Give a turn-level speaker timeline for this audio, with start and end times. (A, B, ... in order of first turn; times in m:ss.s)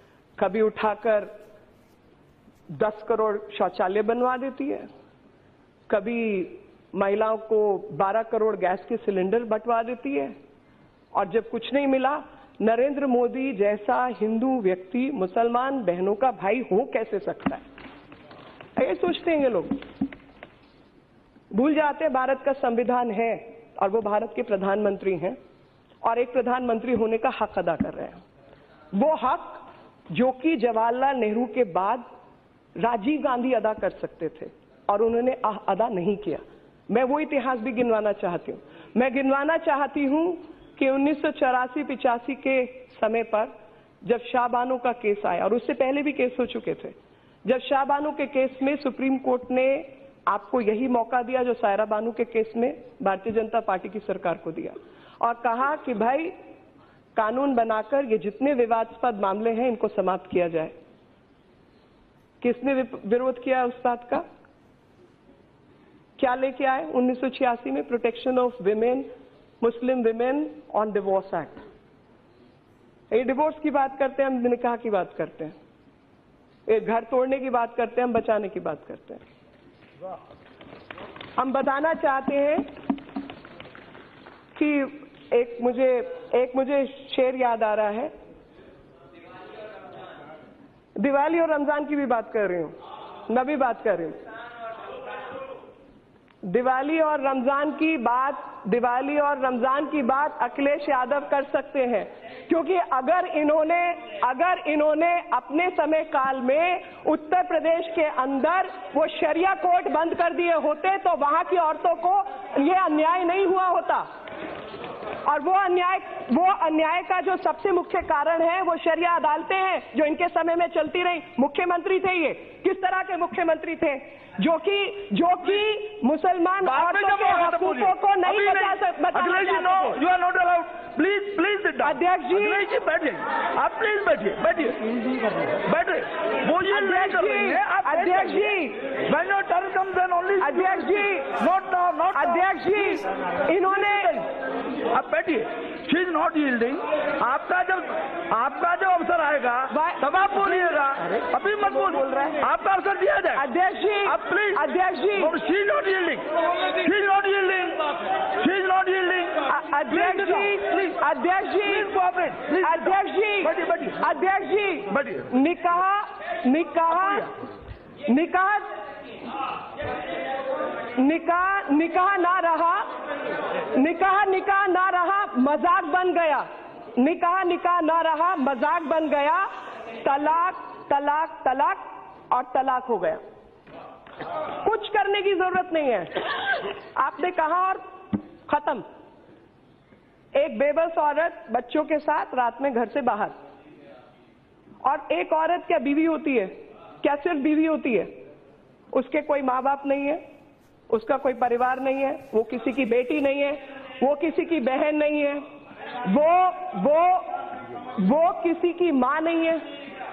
0:00.4-0:01.3 A
0:02.7-0:04.9 A
0:05.9-0:10.3 A
0:11.1-0:17.6 A
0:18.8-0:19.8 A
0:21.5-0:25.4 A
0:26.0-0:28.2 A
0:28.9-0:32.0 A
0:32.8-0:43.5 A
0:44.0-0:56.3 A
0:57.2-1:00.7 A
1:02.4-1:04.2 A
1:06.2-1:09.1 A
1:09.6-1:11.6 A
1:13.1-1:15.5 A
1:16.7-1:19.2 A
1:21.4-1:22.6 A
1:24.5-1:28.1 A
1:31.0-1:32.7 A
1:33.3-1:34.2 A
1:36.4-1:54.0 A
1:55.2-2:10.0 A
2:06.6-2:22.6 B
2:11.8-2:12.6 A
2:16.7-2:18.8 A
2:20.4-2:21.3 A
2:22.1-2:24.2 A
2:24.9-2:33.4 B
2:29.7-2:30.8 A
2:32.0-2:32.3 A
2:33.3-2:35.3 A
2:34.0-2:41.0 B
2:39.5-2:41.9 A
2:41.6-2:44.0 B
2:42.6-2:47.3 A
2:44.9-2:45.3 B
2:46.9-2:47.3 B
2:48.0-2:48.7 A
2:50.9-2:52.9 A
2:53.6-2:59.5 A
3:00.0-3:03.2 A
3:04.5-3:08.8 A
3:10.3-3:13.3 A
3:14.8-3:18.1 A
3:18.9-3:20.2 A
3:20.9-3:25.4 A
3:26.0-3:29.6 A